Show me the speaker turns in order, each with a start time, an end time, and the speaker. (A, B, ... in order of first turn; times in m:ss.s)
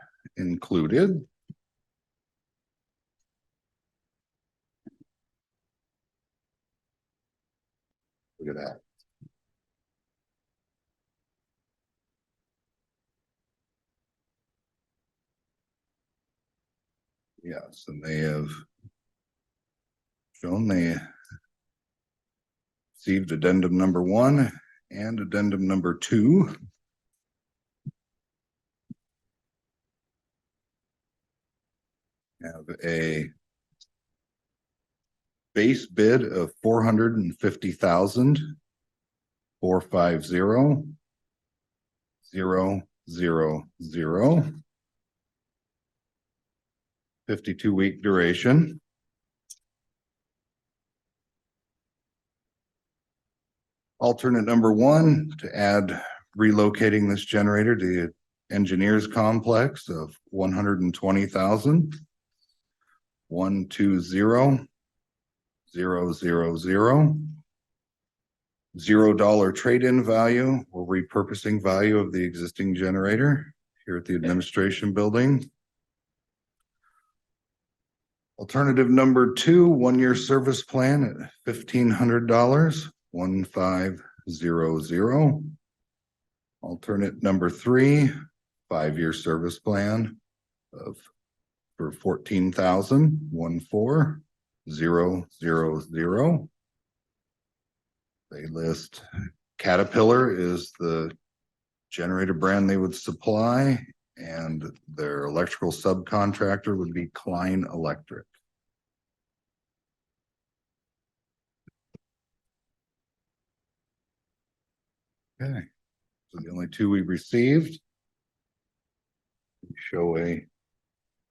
0:00.4-0:01.2 A
0:08.4-0:08.8 A
0:17.4-0:18.6 A
0:20.4-0:21.0 A
0:23.0-0:26.5 A
0:32.4-0:33.3 A
0:35.5-0:38.5 A
0:39.6-0:40.9 A
0:42.2-0:44.5 A
0:47.3-0:48.8 A
0:54.0-1:02.0 A
1:03.3-1:04.6 A
1:05.7-1:07.4 A
1:08.7-1:15.5 A
1:18.4-1:25.5 A
1:26.6-1:28.1 A
1:28.7-1:30.2 A
1:30.7-1:31.0 A
1:31.8-1:36.5 A
1:38.3-1:39.0 A
1:39.6-1:41.1 A
1:41.9-1:48.3 A
1:55.4-1:55.6 A
1:56.3-1:57.8 A
1:59.7-2:00.4 A